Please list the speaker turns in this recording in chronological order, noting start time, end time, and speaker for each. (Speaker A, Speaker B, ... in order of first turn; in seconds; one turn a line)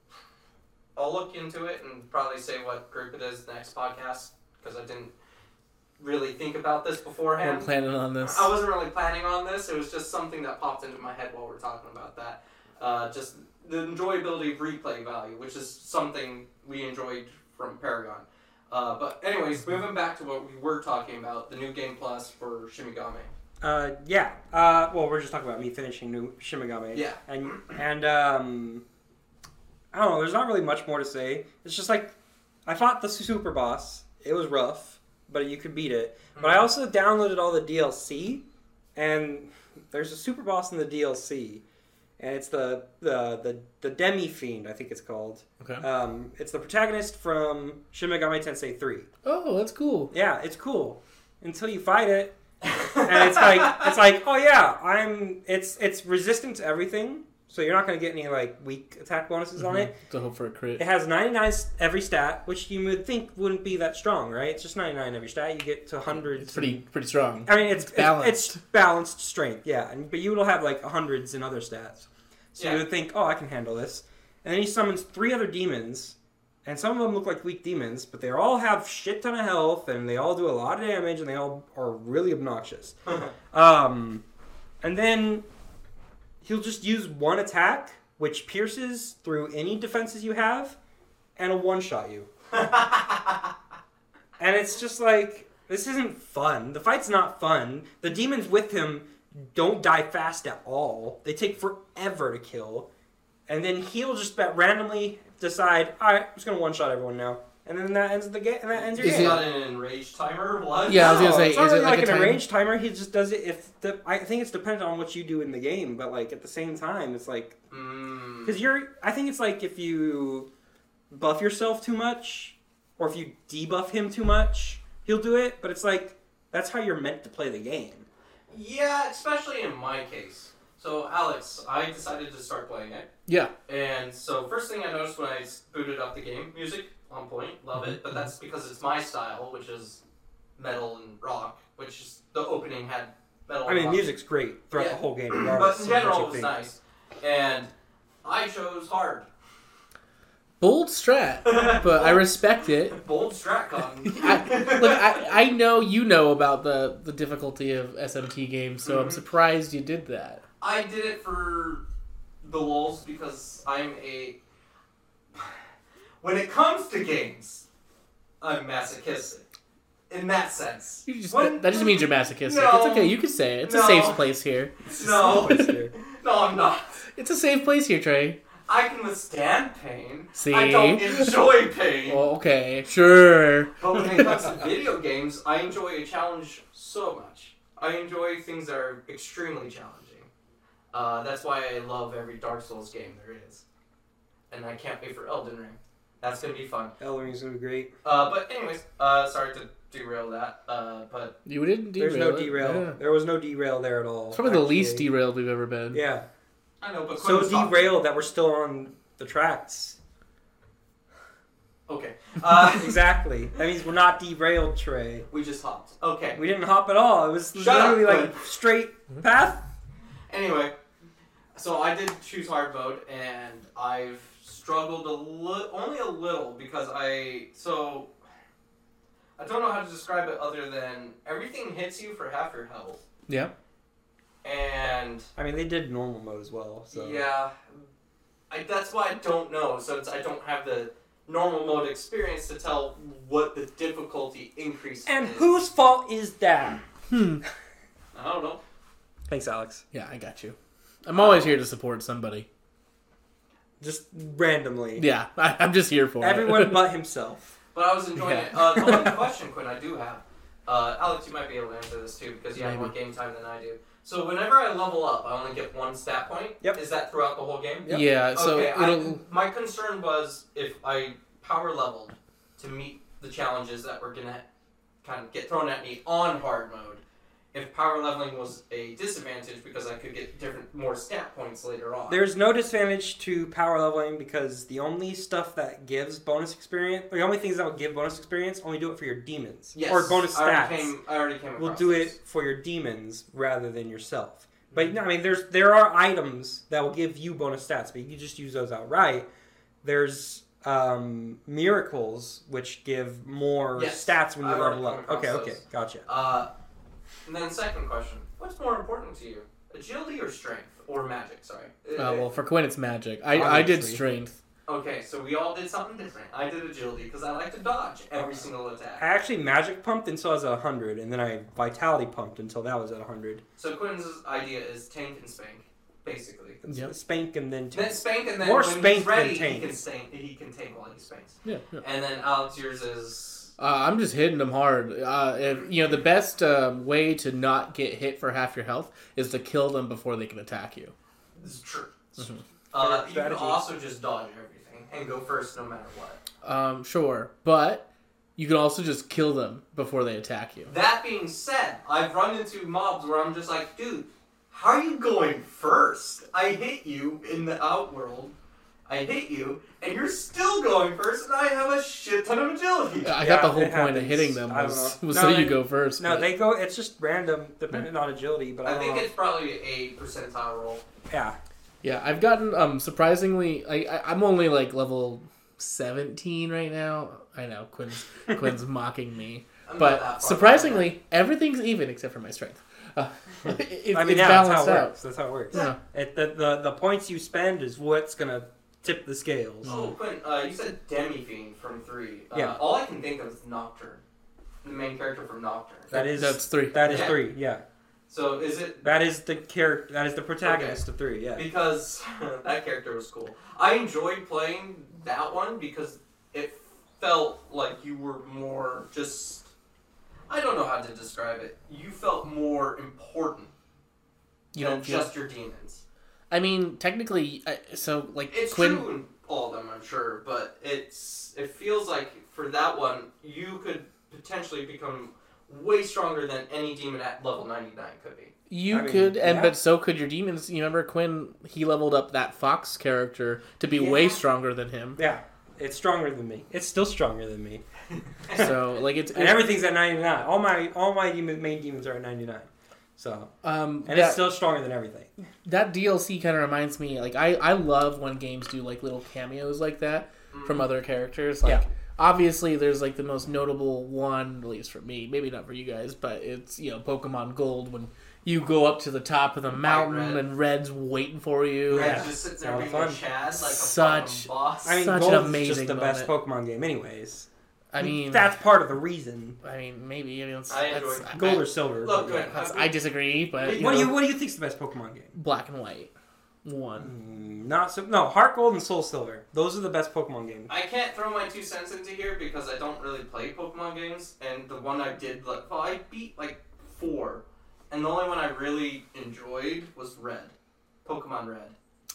Speaker A: 1.0-5.1
Speaker A: 6.0-7.7
Speaker B: 7.4-8.5
Speaker A: 8.2-23.3
Speaker C: 23.6-28.8
Speaker A: 26.9-27.6
Speaker C: 29.9-32.1
Speaker C: 32.7-41.6
Speaker A: 36.4-36.7
Speaker C: 42.2-49.1
Speaker B: 49.2-50.1
Speaker C: 50.1-52.4
Speaker A: 52.6-53.9
Speaker C: 53.0-59.9
Speaker B: 59.6-60.8
Speaker C: 60.8-66.8
Speaker B: 66.3-68.6
Speaker C: 67.5-83.0
Speaker A: 72.6-72.8
Speaker C: 83.5-84.2
Speaker C: 84.8-85.5
Speaker C: 86.4-90.8
Speaker C: 91.4-92.3
Speaker A: 92.5-93.5
Speaker C: 94.4-102.9
Speaker C: 103.5-109.5
Speaker A: 108.7-111.5
Speaker B: 109.0-109.4
Speaker B: 110.9-112.4
Speaker C: 110.9-117.6
Speaker A: 117.7-118.6
Speaker C: 118.4-120.5
Speaker C: 121.1-128.1
Speaker A: 128.5-133.1
Speaker B: 133.3-133.5
Speaker A: 133.7-140.0
Speaker A: 140.6-144.1
Speaker C: 143.7-146.5
Speaker A: 144.7-147.7
Speaker A: 148.2-149.3
Speaker B: 150.6-153.0
Speaker A: 151.5-152.3
Speaker A: 152.9-155.2
Speaker B: 154.1-160.4
Speaker A: 158.8-159.2
Speaker A: 160.6-161.8
Speaker A: 162.4-164.4
Speaker A: 166.2-167.7
Speaker A: 168.4-169.4
Speaker A: 170.1-174.3
Speaker B: 171.1-174.8
Speaker A: 174.9-177.0
Speaker C: 174.9-175.9
Speaker B: 175.3-175.7
Speaker B: 177.2-178.4
Speaker A: 178.7-182.2
Speaker B: 180.3-181.5
Speaker B: 182.1-184.3
Speaker A: 183.8-190.3
Speaker A: 190.9-193.6
Speaker A: 194.5-196.9
Speaker C: 197.0-197.9
Speaker A: 198.0-201.3
Speaker B: 201.5-203.0
Speaker C: 202.0-205.1
Speaker B: 204.3-206.0
Speaker C: 205.9-206.3
Speaker A: 206.8-207.9
Speaker C: 207.2-210.0
Speaker A: 211.9-213.0
Speaker C: 212.6-215.3
Speaker A: 215.3-216.4
Speaker C: 216.3-219.6
Speaker A: 217.5-218.4
Speaker A: 220.3-220.7
Speaker A: 221.6-228.1
Speaker A: 229.4-233.0
Speaker A: 234.4-235.3
Speaker C: 235.4-237.2
Speaker A: 236.9-237.8
Speaker A: 238.5-245.6
Speaker C: 245.1-246.8
Speaker B: 247.1-247.4
Speaker A: 248.1-248.6
Speaker C: 249.3-249.8
Speaker B: 249.9-252.5
Speaker A: 251.2-251.6
Speaker C: 253.8-255.1
Speaker B: 255.0-256.8
Speaker C: 256.2-257.6
Speaker A: 257.7-274.4
Speaker B: 258.2-259.2
Speaker B: 262.6-262.9
Speaker B: 267.9-269.2
Speaker A: 275.0-277.0
Speaker A: 277.5-282.2
Speaker C: 282.1-290.9
Speaker A: 289.8-292.1
Speaker C: 291.6-299.3
Speaker C: 299.8-306.1
Speaker A: 303.8-306.5
Speaker A: 307.3-312.3
Speaker B: 312.0-314.4
Speaker C: 313.3-314.0
Speaker A: 314.7-319.0
Speaker C: 319.0-323.4
Speaker A: 323.6-326.6
Speaker C: 326.6-329.8
Speaker A: 327.7-333.5
Speaker B: 331.4-331.8
Speaker B: 333.6-340.9
Speaker A: 341.4-342.0
Speaker A: 342.7-346.2
Speaker C: 342.8-343.6
Speaker B: 346.4-350.7
Speaker A: 350.7-358.3
Speaker A: 358.9-363.1
Speaker B: 363.0-366.3
Speaker C: 363.2-369.1
Speaker A: 368.6-370.8
Speaker C: 371.1-371.4
Speaker B: 371.8-385.0
Speaker A: 379.7-380.9
Speaker C: 383.9-389.7
Speaker B: 385.5-385.8
Speaker B: 389.6-389.9
Speaker A: 389.6-394.0
Speaker C: 392.3-392.6
Speaker A: 394.6-395.9
Speaker B: 395.9-397.1
Speaker C: 395.9-397.6
Speaker A: 396.8-397.2
Speaker A: 398.1-398.9
Speaker C: 398.8-401.4
Speaker A: 400.4-400.8
Speaker A: 401.4-409.5
Speaker A: 410.3-413.5
Speaker B: 414.5-415.1
Speaker A: 414.6-415.8
Speaker B: 416.3-418.9
Speaker A: 418.3-428.3
Speaker B: 428.5-435.0
Speaker C: 428.7-429.6
Speaker A: 433.7-434.2
Speaker C: 435.0-437.6
Speaker A: 438.3-438.5
Speaker B: 438.3-439.5
Speaker C: 439.1-443.3
Speaker B: 443.4-444.2
Speaker C: 443.9-445.1
Speaker B: 445.4-462.0
Speaker A: 450.3-450.7
Speaker A: 459.6-460.2
Speaker A: 461.7-464.8
Speaker C: 461.7-463.0
Speaker B: 463.3-466.1
Speaker C: 464.6-467.3
Speaker B: 467.7-468.3
Speaker C: 467.8-469.4
Speaker B: 469.4-471.5
Speaker A: 470.5-472.7
Speaker C: 471.1-472.3
Speaker B: 472.3-473.9
Speaker A: 473.4-473.9
Speaker C: 473.5-475.1
Speaker B: 475.1-475.9
Speaker B: 476.4-476.9
Speaker C: 476.8-480.5
Speaker A: 480.5-491.6